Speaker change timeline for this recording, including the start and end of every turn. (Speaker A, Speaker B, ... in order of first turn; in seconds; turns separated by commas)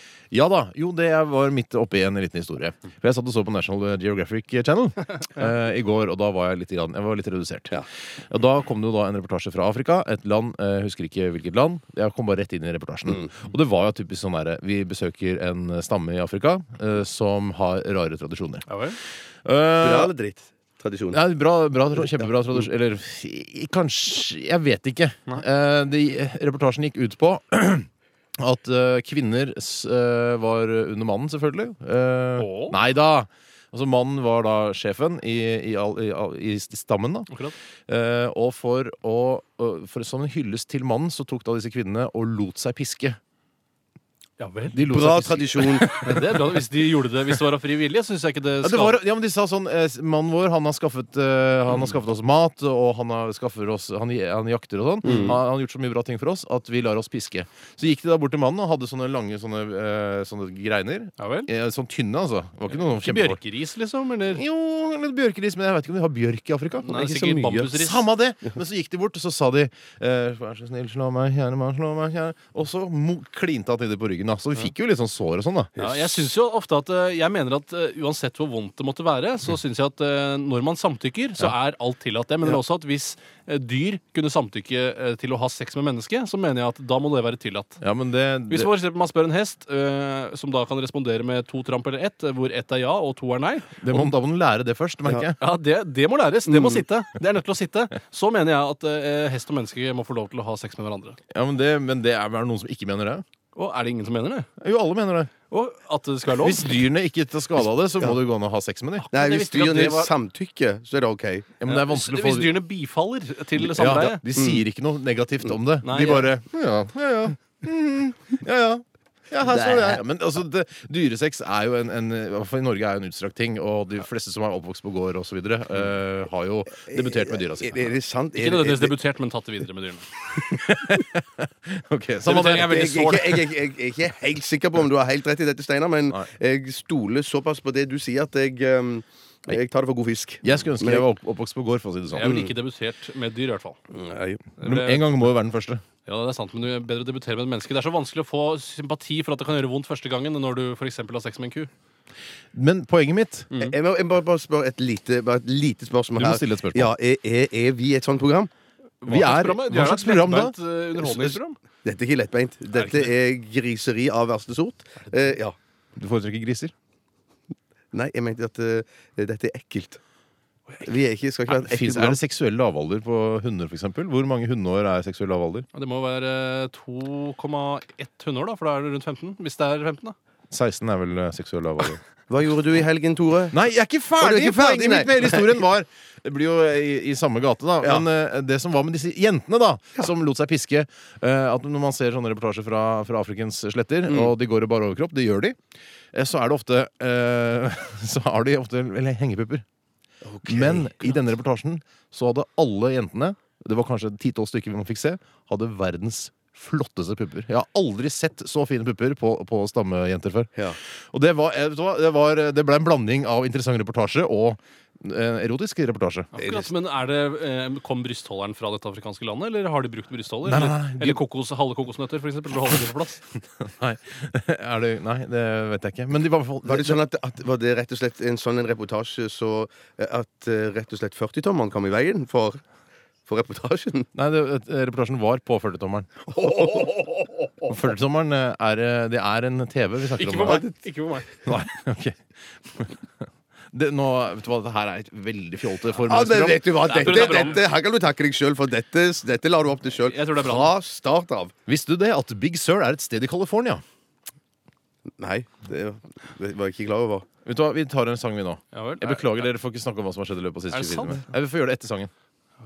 Speaker A: 0.3-18.7, Speaker B: 18.7-19.0, Speaker A: 19.4-20.1, Speaker C: 19.8-21.2, Speaker A: 21.1-27.9, Speaker A: 28.4-37.3, Speaker B: 32.4-32.8, Speaker A: 37.9-43.2, Speaker B: 44.4-44.8, Speaker A: 44.7-46.5, Speaker C: 44.9-46.0, Speaker B: 46.0-49.0, Speaker A: 48.6-63.4, Speaker B: 55.1-55.3, Speaker B: 61.2-61.5, Speaker B: 62.7-64.4, Speaker A: 64.3-75.9, Speaker B: 66.8-68.1, Speaker B: 75.8-87.8, Speaker A: 87.8-88.7, Speaker B: 88.5-94.1, Speaker A: 93.8-95.4, Speaker B: 95.1-101.2, Speaker C: 96.5-96.8, Speaker A: 101.3-103.2, Speaker B: 103.5-104.5, Speaker A: 104.6-105.3, Speaker B: 105.5-106.8, Speaker A: 106.3-109.1, Speaker B: 109.0-110.1, Speaker C: 109.1-111.5, Speaker A: 111.6-112.6, Speaker B: 111.7-114.2, Speaker A: 113.6-128.0, Speaker C: 114.3-114.6, Speaker B: 115.8-116.3, Speaker C: 119.4-120.0, Speaker C: 126.8-128.9, Speaker B: 128.3-130.1, Speaker A: 130.3-133.5, Speaker B: 132.2-133.1, Speaker C: 132.6-141.0, Speaker A: 140.4-142.3, Speaker B: 142.1-143.8, Speaker C: 142.2-142.5, Speaker C: 143.9-144.4, Speaker B: 144.6-145.1, Speaker A: 144.6-145.8, Speaker B: 146.1-151.7, Speaker A: 152.5-153.5, Speaker C: 153.6-158.5, Speaker A: 156.2-156.9, Speaker A: 159.0-161.4, Speaker B: 159.1-161.6, Speaker C: 161.8-165.6, Speaker B: 162.8-163.1, Speaker A: 165.9-166.7, Speaker C: 167.9-170.0, Speaker C: 170.8-172.2, Speaker A: 171.5-175.7, Speaker B: 175.7-180.2, Speaker A: 180.5-182.0, Speaker C: 182.3-183.6, Speaker A: 183.5-195.6, Speaker C: 184.2-185.6, Speaker C: 194.1-194.3, Speaker A: 196.1-199.6, Speaker C: 200.2-201.2, Speaker A: 200.4-216.3, Speaker B: 216.3-223.2, Speaker C: 216.4-216.7, Speaker A: 220.4-221.2, Speaker A: 223.6-227.0, Speaker C: 226.6-232.6, Speaker C: 233.2-234.1, Speaker A: 234.1-236.7, Speaker C: 236.3-237.7, Speaker A: 237.7-240.7, Speaker B: 240.2-241.3, Speaker A: 241.4-243.0, Speaker A: 243.7-247.6, Speaker C: 246.0-251.5, Speaker B: 246.9-247.6, Speaker B: 250.0-250.7, Speaker A: 251.7-253.8, Speaker C: 255.2-257.2, Speaker A: 257.4-262.1, Speaker B: 258.7-259.5, Speaker B: 260.7-261.2